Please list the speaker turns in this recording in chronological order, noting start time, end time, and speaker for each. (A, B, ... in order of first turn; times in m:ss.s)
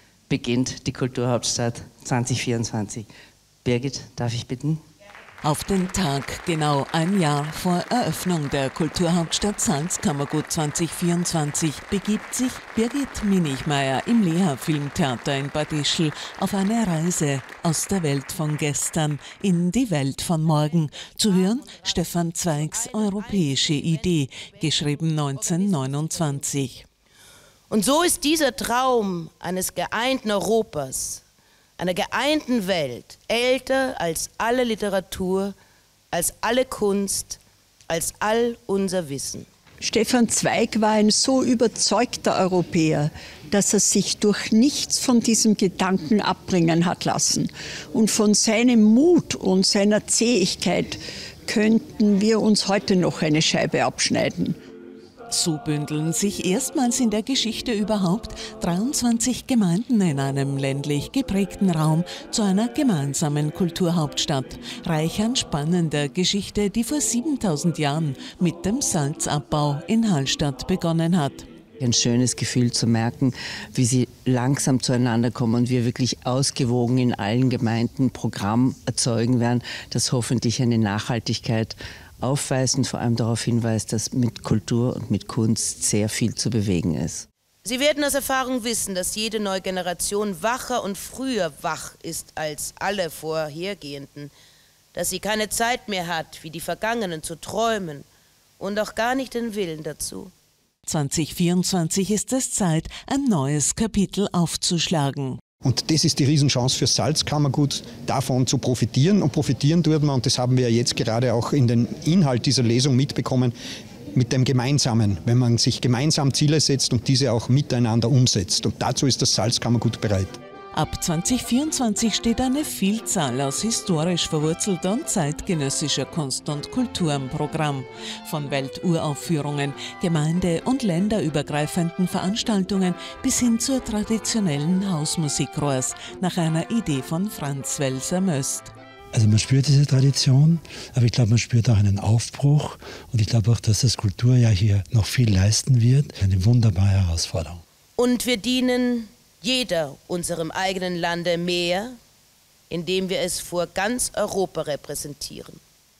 0:00.3-0:03.0 A
0:03.6-0:04.8 A
0:05.4-0:26.8 B
0:21.0-0:26.4 C
0:27.7-0:31.2 C
0:31.8-0:35.5 C
0:36.1-0:39.4 C
0:39.9-0:51.0 D
0:51.5-0:54.5 D
0:55.3-1:11.4 B
1:11.8-1:27.2 A
1:27.6-1:34.3 C
1:34.9-1:38.0 C
1:38.6-1:40.3 C
1:40.9-1:45.4 B
1:45.6-1:53.6 E
1:54.1-2:00.4 E
2:00.7-2:18.7 B
2:19.1-2:27.6 F
2:28.0-2:32.0 C
2:32.7-2:35.6 C